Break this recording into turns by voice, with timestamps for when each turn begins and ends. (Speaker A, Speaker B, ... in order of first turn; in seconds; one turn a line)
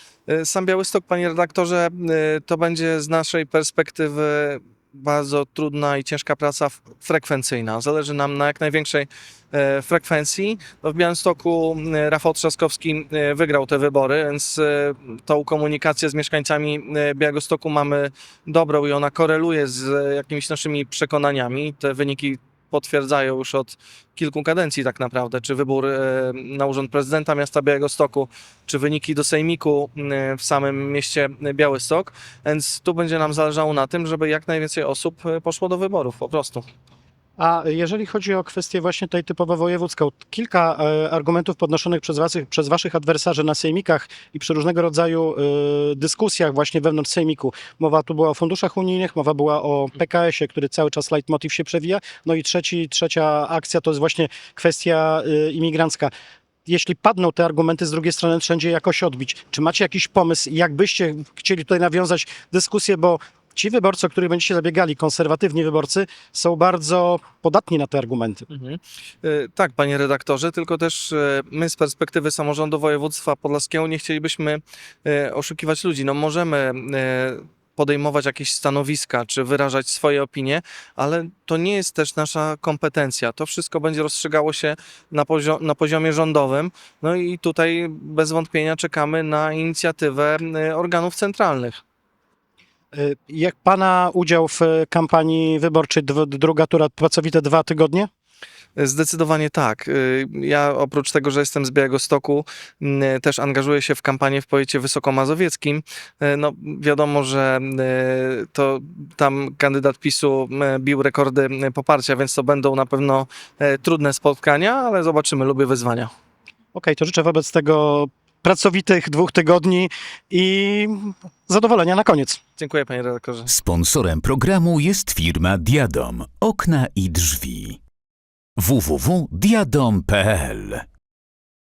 Speaker A: 0.3-36.7
Speaker B: 37.4-56.1
Speaker B: 56.7-68.5
Speaker A: 68.5-91.8
Speaker B: 92.9-98.1
Speaker A: 98.8-116.1
Speaker B: 116.8-122.4
Speaker A: 122.6-123.5
Speaker C: 123.5-127.8
Speaker C: 128.6-130.8